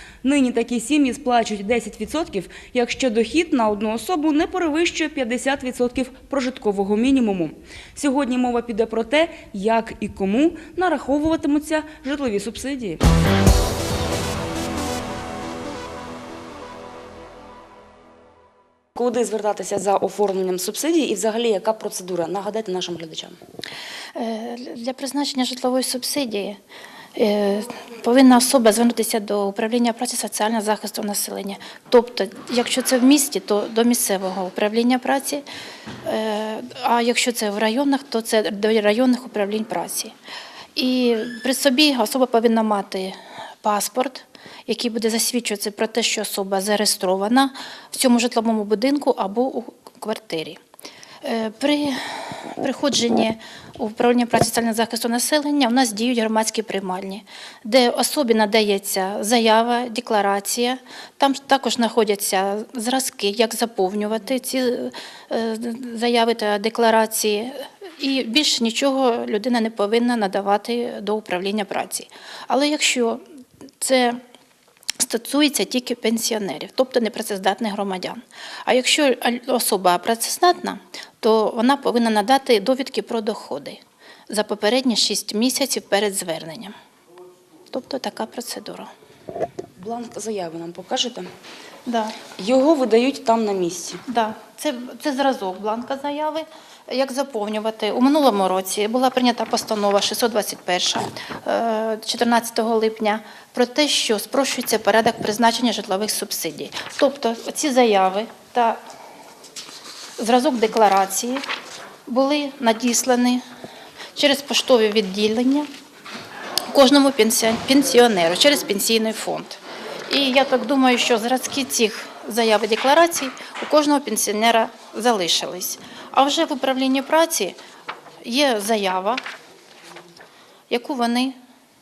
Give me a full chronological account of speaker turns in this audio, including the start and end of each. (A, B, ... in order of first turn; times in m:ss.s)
0:00.2-0:13.0 A
0:19.0-0:23.4 A
0:24.2-0:26.6 B
0:27.2-0:35.4 B
0:36.0-0:40.1 B
0:40.8-0:50.6 B
0:51.2-1:13.2 B
1:13.8-1:14.2 B
1:15.0-1:26.7 B
1:27.7-1:28.9 B
1:29.8-1:31.3 A
1:31.9-1:32.2 B
1:32.4-1:34.0 A
1:34.1-1:48.8 B
1:50.2-1:51.4 B
1:52.1-1:53.4 B
1:54.2-1:55.7 B
1:56.7-2:07.6 B
2:08.2-2:09.2 B
2:10.7-2:11.4 B